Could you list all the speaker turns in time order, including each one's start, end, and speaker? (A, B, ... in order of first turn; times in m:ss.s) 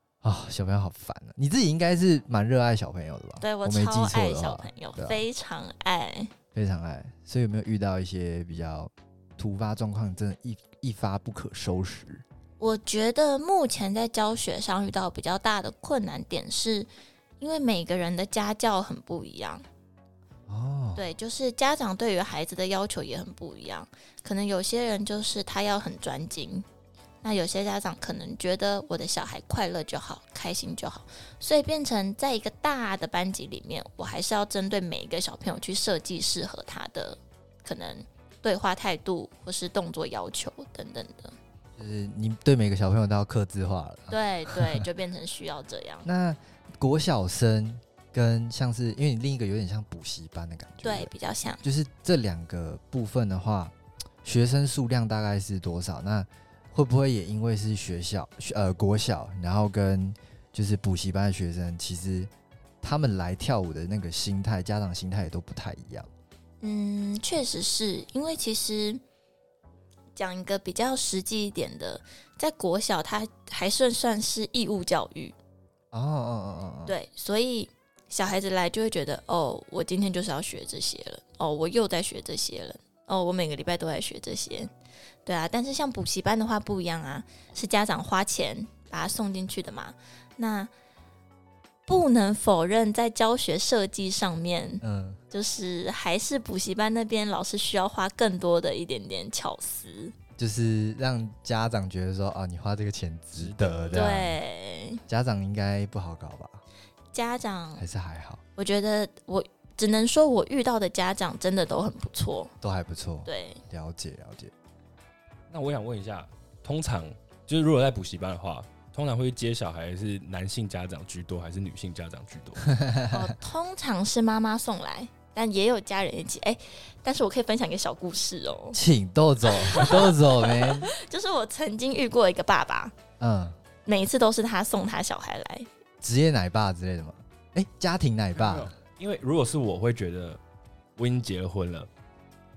0:00.2-0:05.2 A
0:03.4-0:06.3 B
0:06.5-0:12.2 A
0:12.6-0:16.9 B
0:17.4-0:19.6 B
0:20.5-0:21.0 A
0:20.9-0:26.6 B
0:27.2-0:41.4 B
0:41.8-0:44.8 A
0:44.1-0:46.0 B
0:46.0-0:51.1 A
0:50.8-0:51.6 B
0:51.6-1:02.3 A
1:02.8-1:06.1 A
1:06.6-1:09.0 B
1:10.1-1:15.4 B
1:15.9-1:16.9 A
1:16.8-1:24.7 B
1:25.2-1:30.7 B
1:31.9-1:40.1 B
1:34.8-1:35.2 A
1:40.4-1:44.4 A
1:43.3-1:44.3 C
1:43.9-1:45.0 B
1:45.1-1:46.6 A
1:47.1-1:47.8 B
1:47.8-1:48.4 A
1:48.6-1:52.5 B
1:52.6-1:54.5 A
1:53.2-1:53.6 B
1:55.5-2:02.7 C
2:02.6-2:03.3 A
2:03.1-2:08.8 B
2:08.7-2:10.9 A
2:09.4-2:12.9 B
2:13.2-2:13.6 A
2:13.8-2:15.7 B
2:16.0-2:18.7 A
2:18.3-2:20.4 C
2:21.0-2:21.9 C